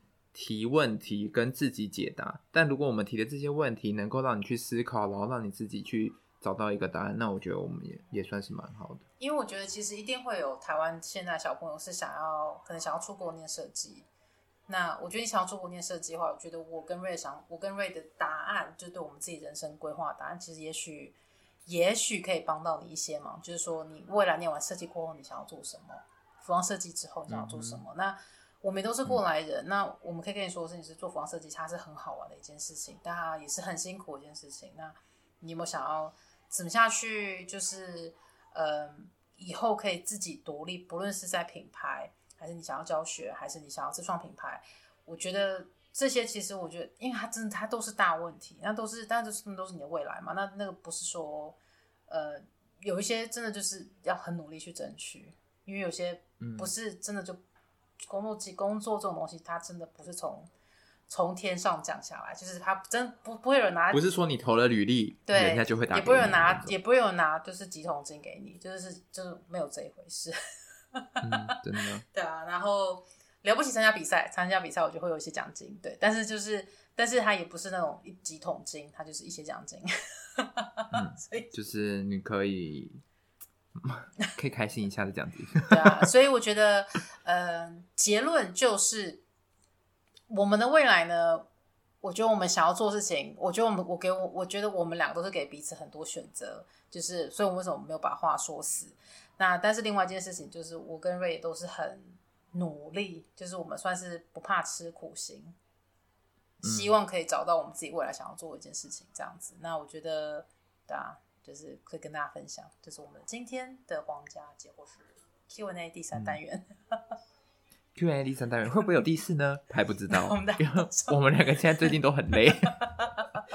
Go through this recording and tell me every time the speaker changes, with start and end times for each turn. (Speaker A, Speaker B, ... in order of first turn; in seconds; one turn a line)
Speaker A: 0.3-9.0
Speaker B: 9.2-14.1
Speaker B: 14.7-21.1
Speaker B: 21.6-51.6
Speaker A: 27.3-27.8
Speaker B: 52.1-57.4
Speaker A: 56.4-56.7
Speaker B: 58.1-60.5
Speaker B: 61.1-64.1
Speaker A: 63.9-66.7
Speaker B: 65.3-70.3
Speaker B: 70.9-71.5
Speaker A: 71.2-72.0
Speaker B: 72.1-81.5
Speaker A: 80.9-83.0
Speaker A: 83.7-86.0
Speaker B: 85.7-89.2
Speaker B: 90.3-91.5
Speaker B: 92.0-105.5
Speaker B: 106.6-117.0
Speaker A: 106.6-107.0
Speaker A: 116.1-116.4
Speaker A: 117.9-122.7
Speaker B: 120.1-121.2
Speaker B: 122.7-123.3